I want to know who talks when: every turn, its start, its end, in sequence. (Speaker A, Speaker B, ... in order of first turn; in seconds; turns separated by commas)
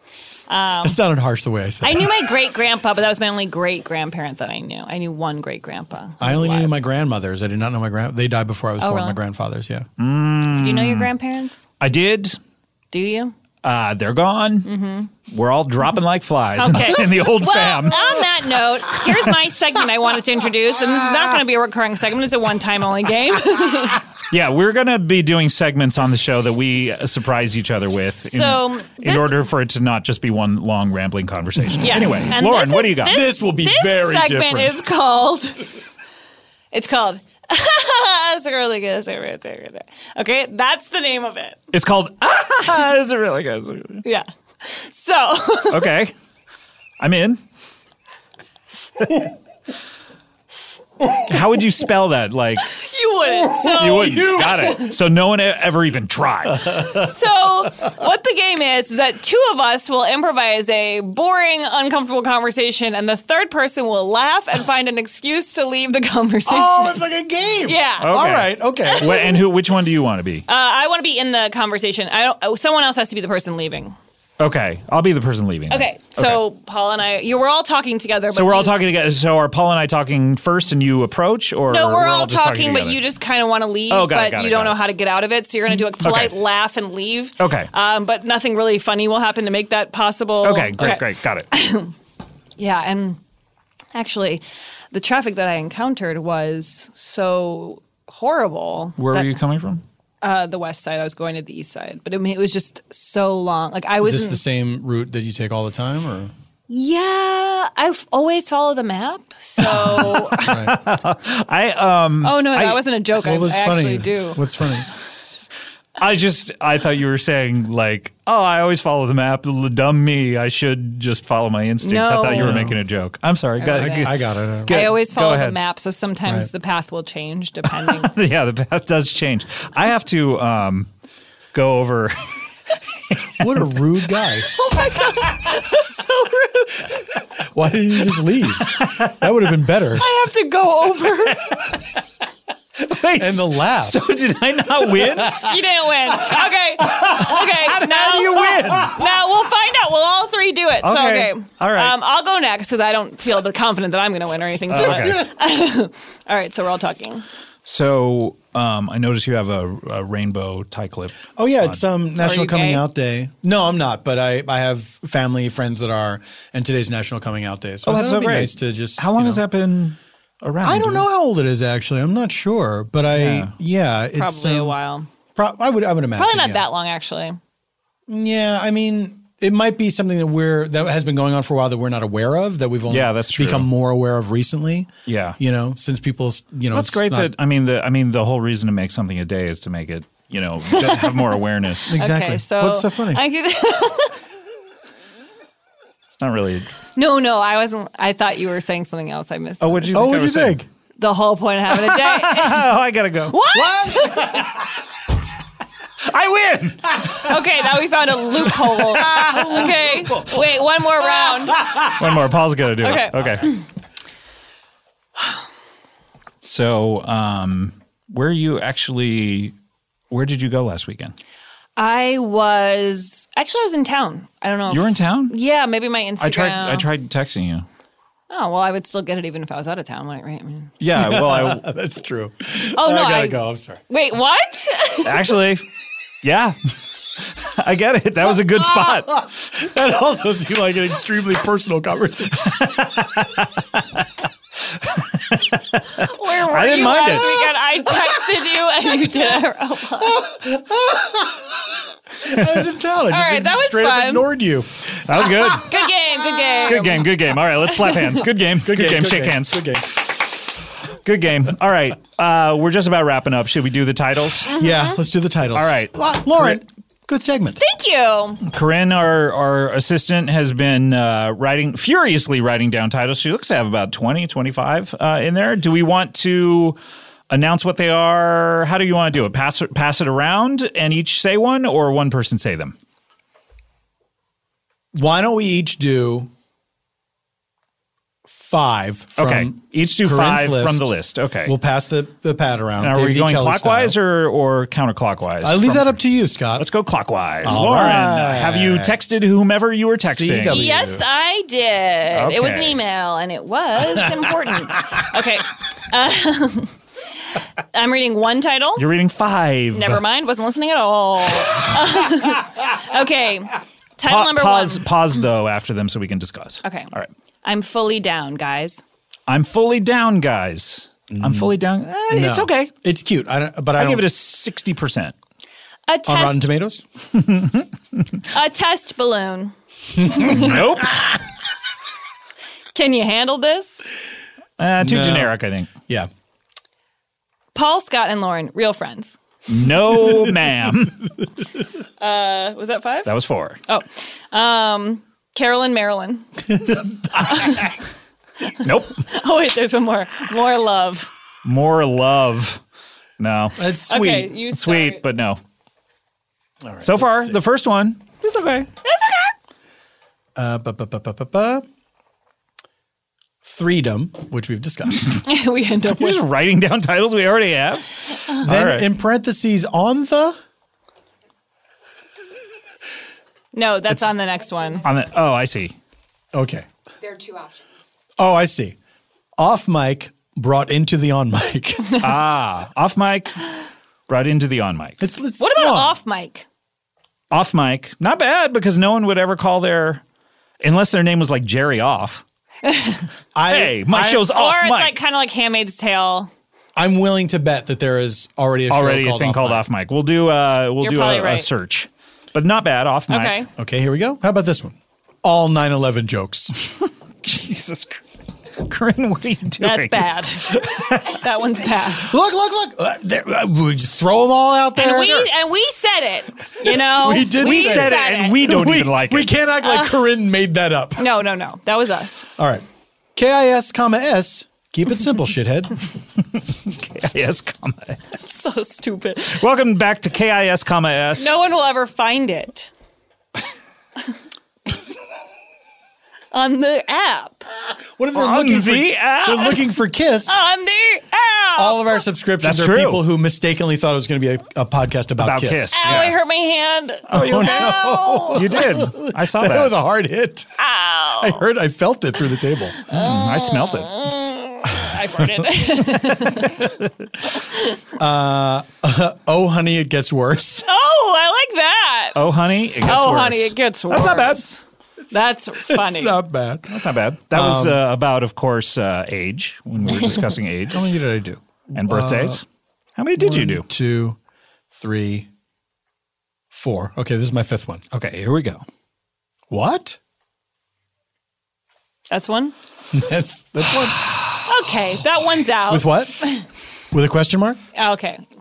Speaker A: 0.5-1.0, Speaker B: 0.8-2.3, Speaker A: 1.8-6.8, Speaker B: 6.2-9.9, Speaker A: 8.8-9.2, Speaker C: 10.0-11.1, Speaker A: 10.5-11.6, Speaker C: 11.8-12.4, Speaker A: 12.9-13.3, Speaker C: 13.6-14.7, Speaker A: 14.6-15.1, Speaker C: 15.3-18.2, Speaker A: 16.6-24.0, Speaker C: 24.3-33.2, Speaker A: 28.3-29.3, Speaker A: 31.8-35.7, Speaker B: 33.1-34.8, Speaker A: 36.7-41.6, Speaker C: 41.7-44.0, Speaker A: 44.0-45.9, Speaker C: 45.7-46.1, Speaker C: 47.0-47.4, Speaker C: 51.3-52.8, Speaker A: 52.7-54.9, Speaker B: 53.4-54.8, Speaker C: 53.6-56.9, Speaker A: 56.8-67.0, Speaker B: 66.5-69.2, Speaker A: 67.6-68.2, Speaker C: 68.0-70.5, Speaker A: 68.8-69.4, Speaker A: 70.5-74.0, Speaker C: 74.4-76.4, Speaker A: 75.7-78.8, Speaker C: 78.3-83.0, Speaker A: 81.7-91.9, Speaker C: 83.9-84.8, Speaker C: 86.0-86.3, Speaker C: 87.4-87.7, Speaker C: 90.4-91.5, Speaker A: 92.6-93.2, Speaker A: 93.9-99.3, Speaker C: 99.0-99.8, Speaker A: 100.2-104.4, Speaker B: 104.0-106.3, Speaker A: 106.7-110.5, Speaker C: 109.6-112.8, Speaker B: 110.4-110.8, Speaker A: 112.2-114.4, Speaker B: 113.2-114.9, Speaker C: 116.0-125.6, Speaker A: 121.8-122.6, Speaker B: 122.3-122.8, Speaker A: 123.6-124.1, Speaker B: 123.7-124.9, Speaker A: 124.7-128.1, Speaker C: 127.8-130.9, Speaker C: 131.5-132.2, Speaker C: 133.1-133.6, Speaker B: 133.4-134.5, Speaker A: 134.5-136.9, Speaker B: 137.5-140.0, Speaker C: 138.7-139.1, Speaker A: 139.9-141.6, Speaker C: 141.5-141.9, Speaker C: 142.8-145.5, Speaker B: 143.2-144.0, Speaker B: 145.0-145.5, Speaker A: 145.3-157.2, Speaker C: 146.9-149.0, Speaker C: 150.8-152.0, Speaker C: 154.7-155.2, Speaker B: 154.7-155.2, Speaker C: 157.6-161.8, Speaker B: 161.3-169.4, Speaker A: 162.2-162.8, Speaker C: 167.8-171.1, Speaker B: 170.6-174.8, Speaker C: 173.1-173.5, Speaker A: 174.1-175.1, Speaker B: 175.3-176.7, Speaker A: 176.2-177.4, Speaker B: 178.1-187.3, Speaker C: 182.9-183.7, Speaker C: 185.1-185.4, Speaker C: 186.7-192.0, Speaker A: 190.7-191.4, Speaker B: 191.9-193.2, Speaker A: 191.9-194.1, Speaker C: 196.2-196.7, Speaker A: 196.9-200.0, Speaker C: 199.6-200.6, Speaker B: 199.9-200.7, Speaker A: 201.0-202.7, Speaker C: 201.7-204.0, Speaker A: 203.3-204.4, Speaker B: 203.8-204.5, Speaker C: 206.1-207.2, Speaker A: 207.2-211.7, Speaker C: 211.8-213.5, Speaker A: 212.8-213.6, Speaker C: 216.4-219.5, Speaker C: 220.1-221.1, Speaker A: 221.8-226.9, Speaker C: 224.7-225.3, Speaker C: 226.2-227.7, Speaker A: 228.3-230.7, Speaker C: 230.8-231.6, Speaker B: 230.9-233.8, Speaker A: 232.8-235.2, Speaker C: 235.0-235.6, Speaker C: 236.2-236.6, Speaker C: 237.4-239.3, Speaker A: 238.5-239.0, Speaker B: 239.5-242.7, Speaker C: 242.4-244.1, Speaker C: 244.8-247.3, Speaker A: 245.9-250.2, Speaker B: 250.0-251.4, Speaker B: 252.2-255.5, Speaker C: 252.3-252.6, Speaker A: 253.1-254.3, Speaker C: 255.1-255.7, Speaker A: 255.6-257.1, Speaker C: 256.6-260.4, Speaker B: 258.6-259.9, Speaker C: 261.0-264.5, Speaker B: 264.5-267.6, Speaker A: 264.5-264.9, Speaker C: 265.5-266.6, Speaker A: 267.6-268.4, Speaker C: 268.4-276.8, Speaker C: 277.3-282.8, Speaker B: 284.9-286.3, Speaker B: 288.3-290.9, Speaker C: 289.1-291.5, Speaker B: 291.4-294.0, Speaker C: 292.8-296.0, Speaker B: 295.4-296.7, Speaker C: 296.5-300.7, Speaker B: 297.4-299.0, Speaker B: 300.0-301.0, Speaker A: 300.5-306.7, Speaker C: 302.1-302.8, Speaker A: 307.7-308.9, Speaker C: 308.8-310.0, Speaker A: 309.7-314.9, Speaker C: 314.0-317.1, Speaker A: 316.6-316.9, Speaker A: 317.4-318.8, Speaker C: 319.3-322.7, Speaker B: 321.1-324.1, Speaker C: 323.8-325.1, Speaker A: 325.9-326.5, Speaker B: 326.1-326.8, Speaker C: 327.2-327.7, Speaker A: 328.3-330.4, Speaker B: 330.1-330.6, Speaker C: 330.2-331.2, Speaker A: 332.7-333.9, Speaker C: 334.6-335.7, Speaker B: 334.8-335.3, Speaker A: 337.5-339.2, Speaker C: 339.5-341.1, Speaker A: 342.0-343.1, Speaker C: 343.1-343.6, Speaker A: 343.7-346.3, Speaker A: 347.2-347.6, Speaker C: 348.6-349.0, Speaker A: 349.0-351.1, Speaker C: 351.4-352.6, Speaker C: 353.2-353.6, Speaker B: 353.6-354.4, Speaker A: 353.9-355.0, Speaker C: 354.5-355.4, Speaker B: 356.6-357.4, Speaker C: 356.8-358.7, Speaker A: 358.8-359.3, Speaker B: 360.4-361.6, Speaker B: 363.4-365.2, Speaker A: 365.2-366.2, Speaker C: 365.9-368.9, Speaker B: 368.4-370.4, Speaker A: 373.5-374.8, Speaker C: 374.8-375.7, Speaker B: 376.3-376.7, Speaker B: 378.2-378.8, Speaker B: 379.4-382.0, Speaker C: 382.0-383.5, Speaker C: 384.1-385.0, Speaker B: 385.0-385.9, Speaker A: 385.4-386.4, Speaker C: 387.3-390.0, Speaker C: 390.6-392.2, Speaker A: 392.6-393.1, Speaker B: 393.3-394.3, Speaker C: 393.5-395.0, Speaker A: 394.3-396.3, Speaker B: 396.8-399.6, Speaker C: 398.7-403.4, Speaker A: 400.8-401.5, Speaker A: 403.1-403.5, Speaker B: 403.6-406.5, Speaker C: 407.2-408.0, Speaker C: 408.6-411.2, Speaker A: 409.6-412.1, Speaker B: 412.0-415.3, Speaker A: 414.8-418.4, Speaker C: 414.9-415.3, Speaker B: 416.6-421.1, Speaker C: 417.3-419.3, Speaker A: 419.6-420.0, Speaker A: 421.0-422.3, Speaker B: 422.4-425.8, Speaker C: 426.6-428.0, Speaker A: 428.1-429.4, Speaker C: 429.2-431.3, Speaker A: 431.2-432.7, Speaker A: 436.3-437.5, Speaker B: 438.0-440.4, Speaker C: 438.1-439.6, Speaker A: 440.3-442.0, Speaker B: 441.6-446.1, Speaker C: 442.4-443.1, Speaker C: 445.2-446.2, Speaker A: 445.7-448.4, Speaker C: 447.1-449.7, Speaker B: 447.1-450.5, Speaker A: 450.6-451.4, Speaker B: 451.1-452.8, Speaker A: 452.9-456.6, Speaker C: 452.9-454.0, Speaker C: 456.2-456.7, Speaker A: 457.4-457.8, Speaker B: 457.9-460.6, Speaker A: 460.6-462.2, Speaker C: 462.1-464.4, Speaker A: 462.8-464.6, Speaker A: 465.1-466.2, Speaker B: 465.6-466.8, Speaker C: 466.7-470.9, Speaker B: 467.3-467.8, Speaker B: 470.7-472.4, Speaker C: 471.7-472.4, Speaker C: 473.0-473.6, Speaker B: 473.2-474.2, Speaker B: 474.7-475.3, Speaker B: 476.5-477.8, Speaker C: 477.9-478.6, Speaker B: 479.5-480.0, Speaker A: 482.1-482.5, Speaker B: 482.9-484.1, Speaker A: 484.4-486.4, Speaker B: 485.7-486.1, Speaker B: 486.9-487.6, Speaker A: 487.7-488.2